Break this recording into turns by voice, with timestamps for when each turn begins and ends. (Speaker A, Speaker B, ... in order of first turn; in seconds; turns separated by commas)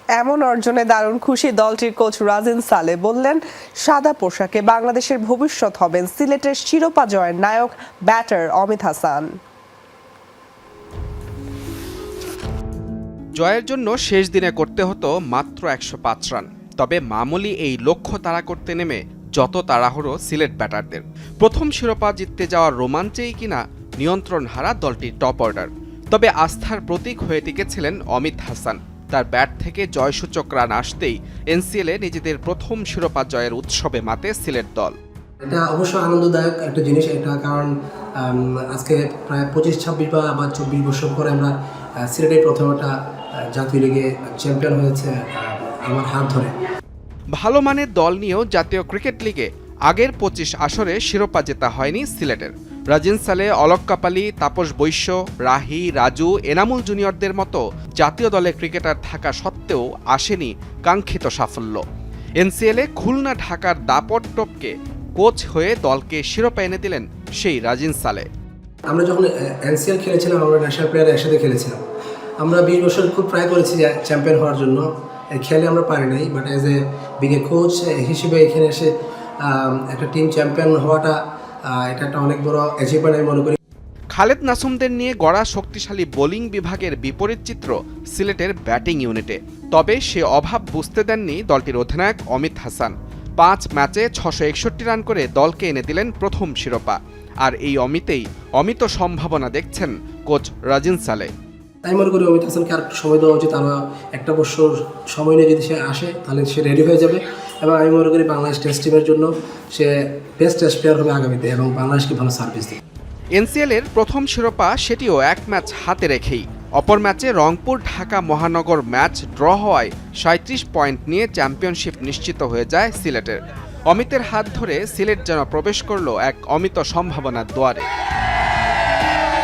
Speaker A: 0.1-9.4, Speaker B: 13.4-35.0, Speaker C: 35.4-46.5, Speaker B: 47.3-61.8, Speaker B: 62.4-68.3, Speaker C: 68.9-71.8, Speaker C: 72.4-83.6, Speaker B: 84.1-101.3, Speaker C: 101.8-112.8, Speaker B: 113.3-127.8